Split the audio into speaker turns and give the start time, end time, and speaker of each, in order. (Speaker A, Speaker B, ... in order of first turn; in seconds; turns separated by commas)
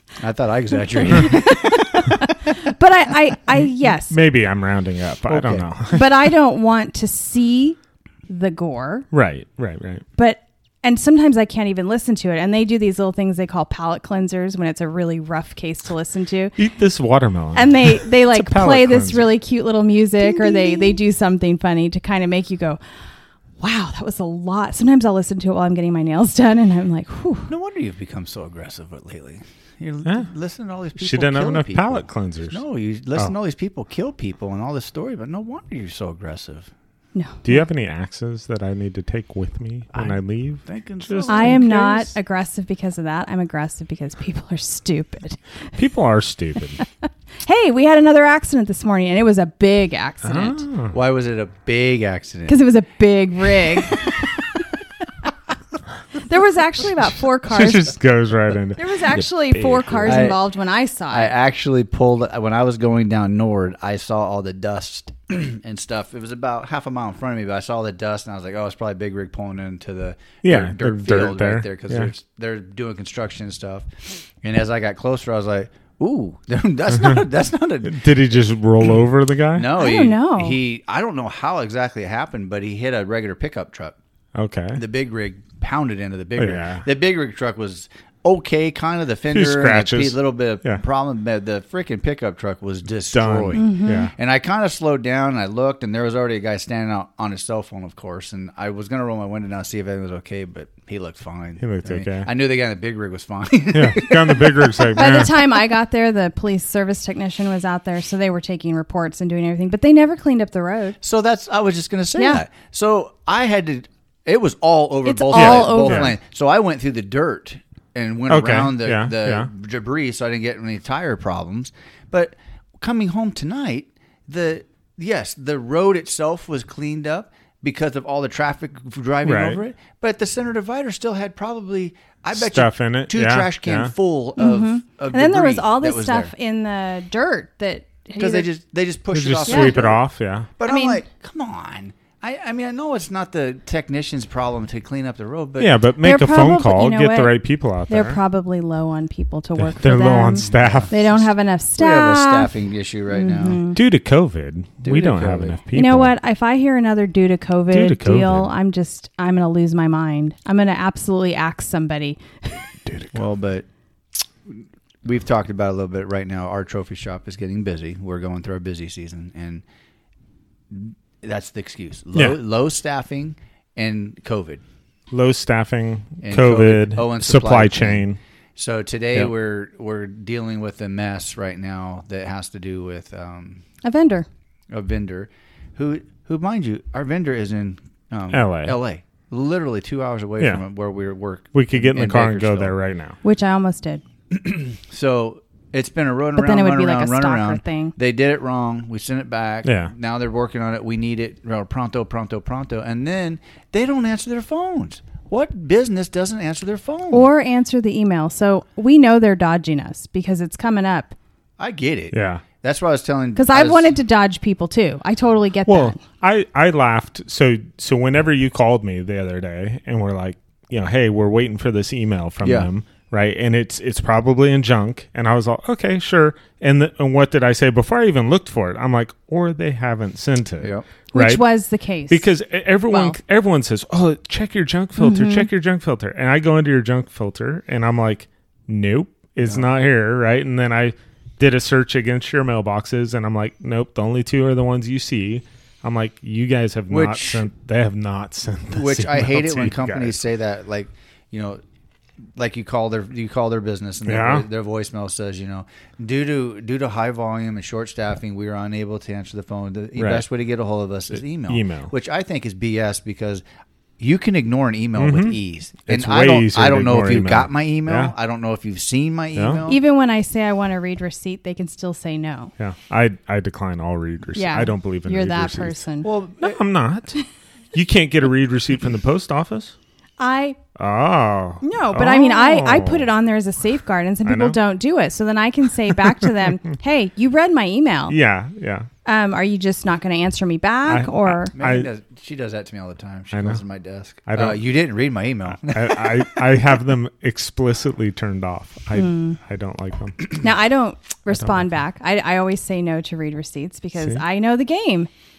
Speaker A: 0.2-2.5, Speaker B: 1.0-4.2, Speaker C: 4.1-6.2, Speaker A: 5.3-5.7, Speaker B: 5.9-9.1, Speaker C: 9.1-10.0, Speaker B: 10.2-16.6, Speaker C: 16.6-19.3, Speaker B: 17.5-22.8, Speaker A: 20.2-21.0, Speaker B: 23.6-27.5, Speaker A: 27.5-36.7, Speaker C: 31.0-32.6, Speaker B: 37.1-37.6, Speaker C: 37.4-41.7, Speaker A: 39.9-42.1, Speaker B: 41.3-45.4, Speaker C: 45.8-46.8, Speaker B: 47.4-50.6, Speaker C: 50.2-51.0, Speaker A: 50.9-52.6, Speaker B: 52.5-54.2, Speaker A: 53.6-54.3, Speaker B: 56.2-57.9, Speaker C: 57.5-60.4, Speaker B: 58.8-61.3, Speaker A: 60.0-60.4, Speaker A: 61.1-78.1, Speaker C: 70.4-72.1, Speaker C: 77.8-79.7, Speaker A: 79.5-84.0, Speaker B: 79.7-80.6, Speaker C: 84.3-84.8, Speaker A: 84.7-105.0, Speaker C: 86.4-86.8, Speaker C: 89.3-90.8, Speaker C: 93.1-94.1, Speaker B: 93.5-94.1, Speaker C: 101.6-102.3, Speaker C: 103.7-105.6, Speaker B: 104.9-111.0, Speaker A: 111.0-136.3, Speaker B: 112.2-112.4, Speaker B: 115.0-116.1, Speaker C: 115.3-116.1, Speaker C: 118.3-119.5, Speaker C: 129.2-129.6, Speaker C: 132.3-133.9, Speaker B: 134.4-138.5, Speaker A: 138.2-140.0, Speaker C: 139.1-140.5, Speaker B: 139.5-139.8, Speaker A: 140.6-145.7, Speaker B: 140.6-141.0, Speaker C: 145.6-148.2, Speaker B: 146.0-147.3, Speaker B: 147.9-152.5, Speaker C: 149.6-151.1, Speaker A: 150.4-151.2, Speaker A: 151.7-153.6, Speaker B: 153.1-153.8, Speaker C: 153.7-156.1, Speaker A: 154.8-155.6, Speaker B: 155.7-162.6, Speaker C: 157.7-158.5, Speaker A: 163.1-163.7, Speaker A: 164.4-169.6, Speaker A: 170.7-174.6, Speaker C: 175.1-178.2, Speaker A: 176.2-178.0, Speaker A: 178.6-183.6, Speaker B: 183.8-184.3, Speaker A: 184.7-192.7, Speaker C: 188.3-188.8, Speaker C: 191.5-193.2, Speaker B: 193.2-194.0, Speaker A: 194.3-207.3, Speaker B: 196.3-197.9, Speaker C: 199.6-199.9, Speaker B: 207.1-211.1, Speaker A: 211.6-213.9, Speaker C: 212.1-212.4, Speaker B: 213.3-216.0, Speaker C: 215.7-231.4, Speaker A: 222.4-222.7, Speaker A: 230.6-230.8, Speaker B: 231.1-232.2, Speaker C: 232.1-250.2, Speaker B: 232.9-233.2, Speaker B: 235.0-235.5, Speaker A: 246.9-247.4, Speaker A: 248.7-251.6, Speaker A: 252.3-263.4, Speaker C: 254.1-254.4, Speaker C: 260.0-260.2, Speaker C: 261.5-261.9, Speaker A: 264.0-269.8, Speaker C: 264.9-268.1, Speaker C: 269.4-269.6, Speaker B: 269.6-272.5, Speaker C: 272.6-275.8, Speaker B: 274.3-276.1, Speaker A: 276.0-276.6, Speaker C: 276.4-277.2, Speaker C: 277.7-279.7, Speaker B: 280.2-280.6, Speaker C: 280.8-283.1, Speaker B: 281.6-288.1, Speaker C: 284.2-284.6, Speaker C: 288.1-288.9, Speaker B: 289.0-291.5, Speaker C: 290.9-291.9, Speaker A: 291.5-296.6, Speaker C: 293.3-293.6, Speaker C: 294.2-294.6, Speaker C: 295.6-300.4, Speaker B: 298.9-299.4, Speaker B: 300.4-305.1, Speaker C: 301.3-301.7